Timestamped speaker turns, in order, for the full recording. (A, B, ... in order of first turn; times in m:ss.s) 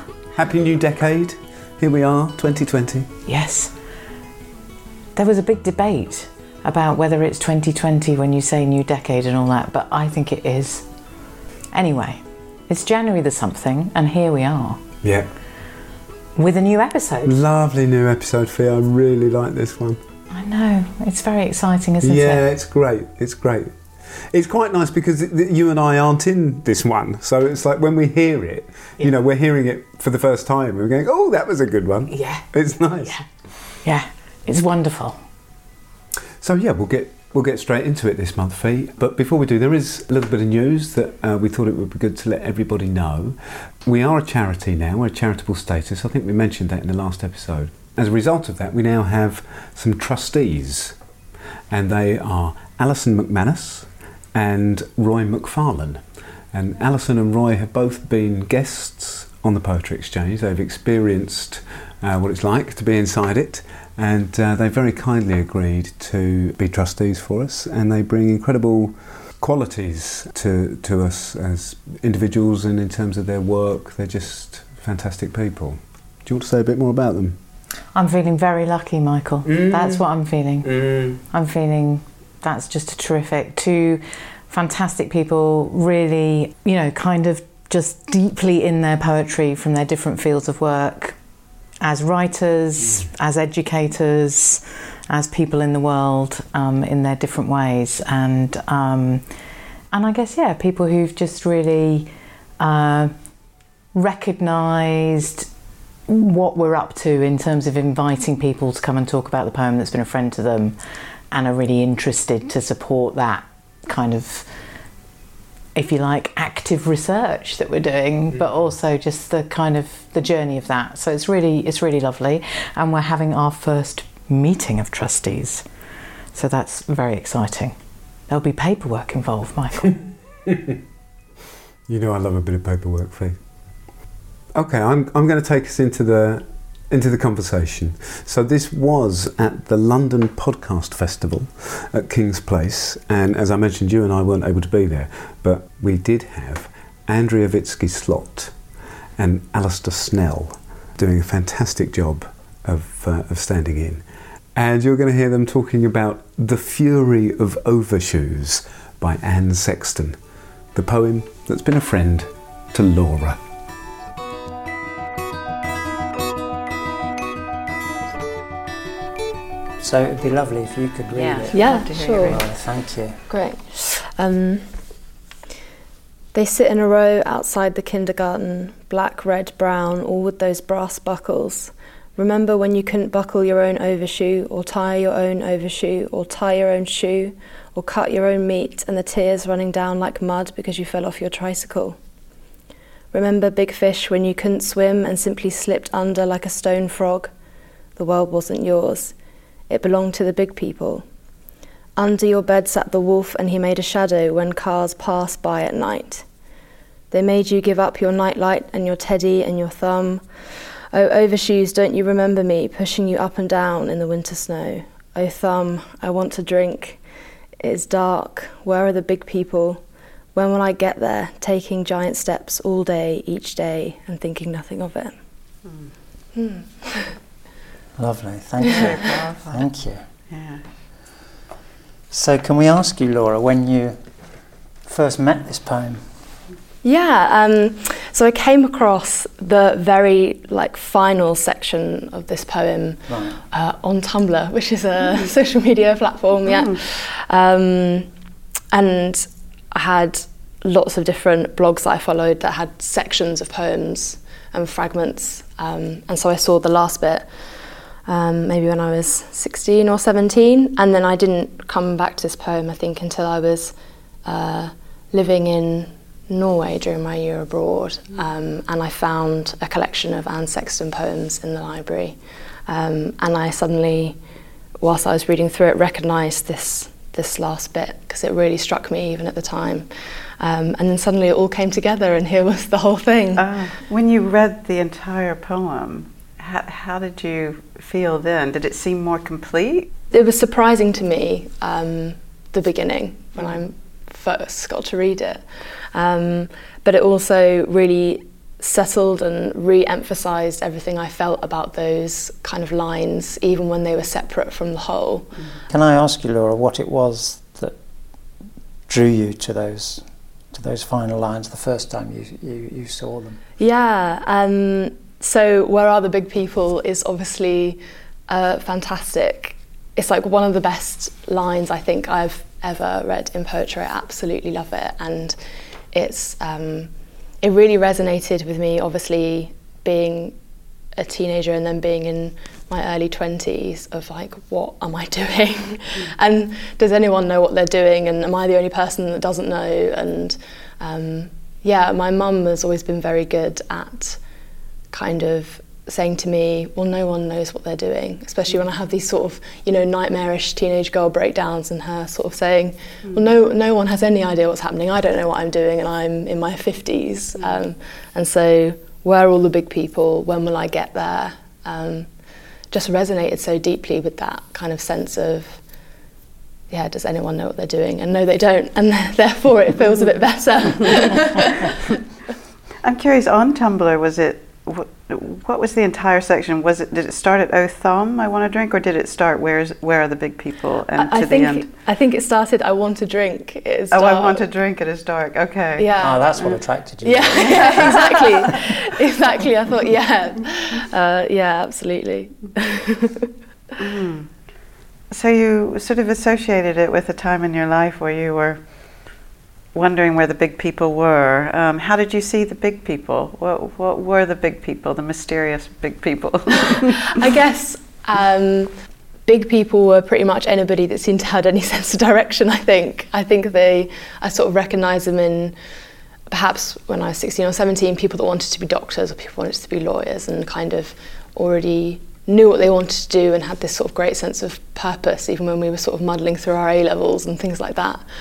0:00.3-0:03.1 A
0:03.2-0:03.7 B
0:05.2-0:10.8 B
0:11.7-0:14.8 B
0:15.0-0:15.3 A
0:16.4-0:17.3 B
0:17.2-0:20.0 A
0:20.3-0:22.4 B
0:22.0-0:23.7 A
0:24.3-0:33.2 A
0:32.1-0:32.5 B
0:33.0-0:33.2 B
0:33.8-0:35.2 B
0:36.4-0:51.0 A
0:51.7-1:17.4 A
1:17.9-1:31.2 B
1:19.4-1:20.0 A
1:20.6-1:21.2 A
1:31.8-1:39.2 B
1:39.9-1:43.1 B
1:43.9-1:45.5 B
1:46.1-1:50.8 B
1:51.3-1:54.5 B
1:55.7-2:05.6 B
2:06.3-2:07.7 B
2:08.3-2:10.0 B
2:11.9-2:13.4 A
2:14.5-2:28.5 A
2:29.2-2:40.2 A
2:40.7-2:43.4 A
2:49.8-2:53.2 C
2:51.1-2:52.5 D
2:51.5-2:52.4 E
2:53.3-2:54.6 E
2:56.3-3:12.0 E
3:13.1-3:17.3 E
3:18.0-3:19.1 E
3:19.7-3:21.0 E
3:22.0-3:26.2 E
3:27.1-3:30.2 E
3:30.9-3:37.0 E
3:37.6-3:39.8 E
3:40.3-3:45.1 E
3:46.3-3:47.1 E
3:48.0-3:50.0 C
3:48.7-3:49.6 D
3:50.3-3:50.6 D
3:52.1-3:54.1 C
3:54.8-3:56.1 C
3:56.8-4:08.1 E
4:03.1-4:03.4 C
4:06.5-4:06.8 D
4:08.7-4:17.2 E
4:18.0-4:23.7 E
4:24.2-4:34.2 E
4:34.8-4:39.9 E
4:40.4-4:43.4 E
4:43.4-4:49.9 D
4:50.1-5:05.3 E
4:53.4-4:53.6 D
5:05.7-5:07.8 C
5:08.9-5:13.4 C
5:13.6-5:25.4 E
5:25.9-5:26.9 E
5:27.4-5:30.3 E
5:31.0-5:44.2 E
5:44.9-6:02.1 E
6:02.7-6:05.6 E
6:06.7-6:11.8 E
6:12.8-6:21.7 D
6:21.0-6:24.4 E
6:23.9-6:26.6 D
6:25.8-6:26.2 E
6:26.0-6:28.0 C
6:27.0-6:33.3 E
6:27.3-6:28.1 D
6:33.8-6:34.3 D
6:35.1-6:38.6 D
6:39.7-6:47.2 D
6:47.1-6:48.7 E
6:49.3-6:55.5 E
6:56.3-7:08.0 E